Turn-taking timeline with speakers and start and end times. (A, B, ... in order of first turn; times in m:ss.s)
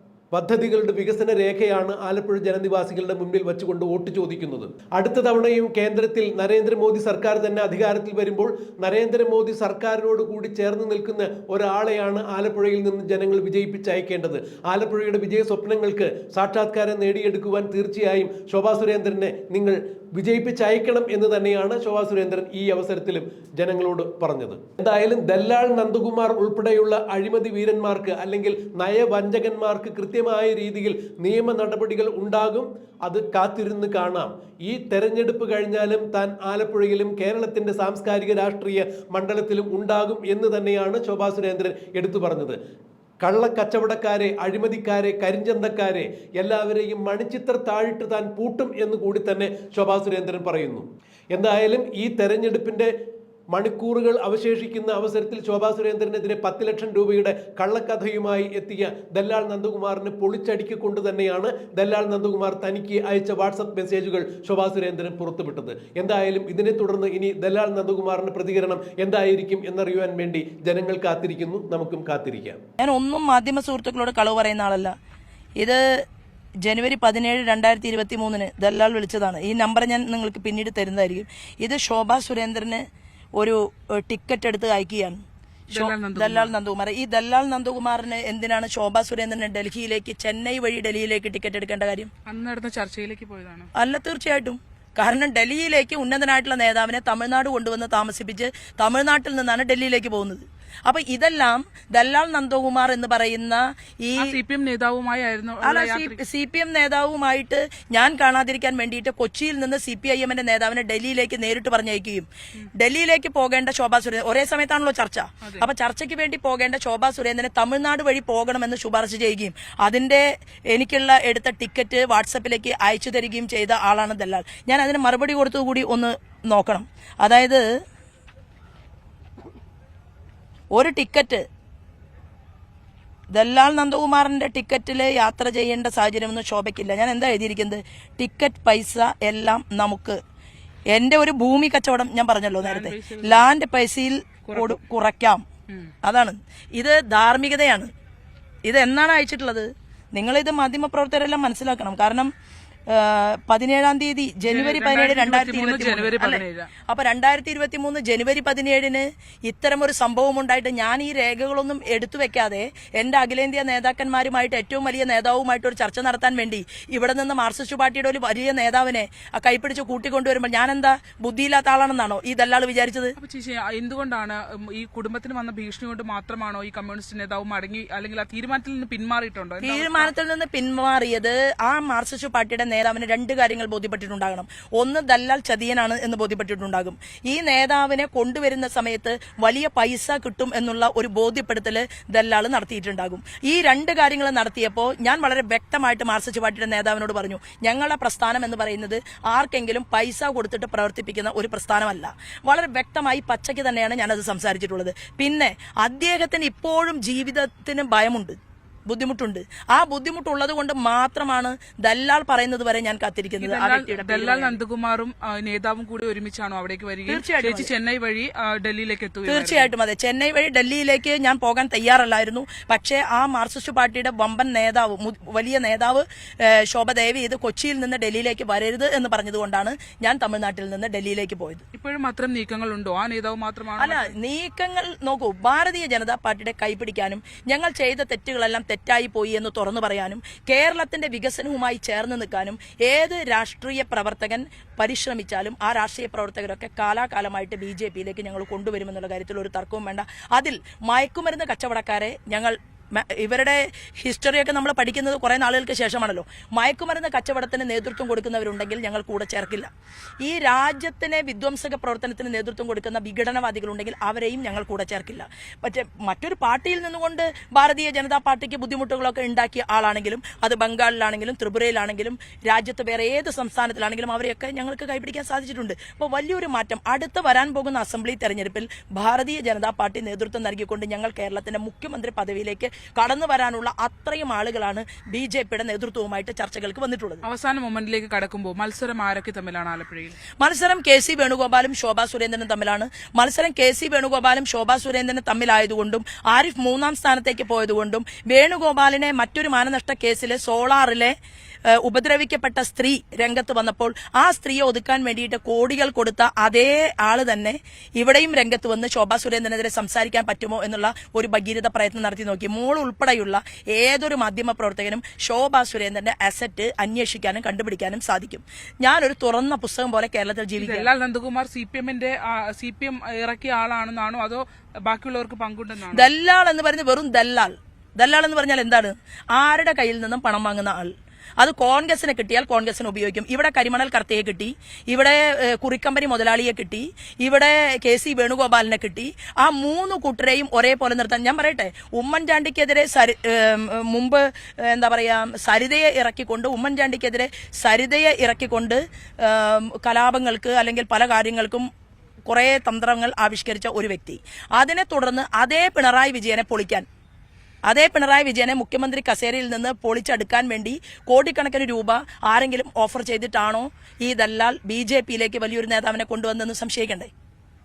0:00.3-0:42.6 A
0:43.2-0:52.9 A
0:53.5-1:12.6 A
1:12.8-1:14.9 B
1:16.6-1:22.8 B
1:23.4-1:25.2 B
1:25.7-1:26.5 C
1:25.7-1:32.1 B
1:32.3-1:33.7 C
1:33.8-1:44.3 B
1:44.2-1:46.2 C
1:45.6-2:07.6 B
2:10.7-2:11.4 B
2:13.3-2:20.2 B
2:20.9-2:25.4 B
2:22.6-2:23.5 C
2:24.5-2:24.8 C
2:26.0-2:27.9 B
2:28.7-2:32.3 B
2:32.9-2:53.2 B
2:34.5-2:36.7 C
2:53.2-3:00.1 C
2:59.6-3:28.4 B
3:28.9-3:34.6 B
3:33.4-3:39.7 C
3:37.1-3:37.7 B
3:39.3-3:51.6 B
3:51.7-3:54.1 C
3:53.8-4:19.7 B
4:20.2-4:47.2 B
4:47.2-4:50.2 C
4:50.4-5:01.2 B
5:01.7-5:20.9 B
5:20.6-5:26.1 C
5:25.9-5:51.7 B
5:52.3-5:56.8 B
5:57.7-6:07.1 B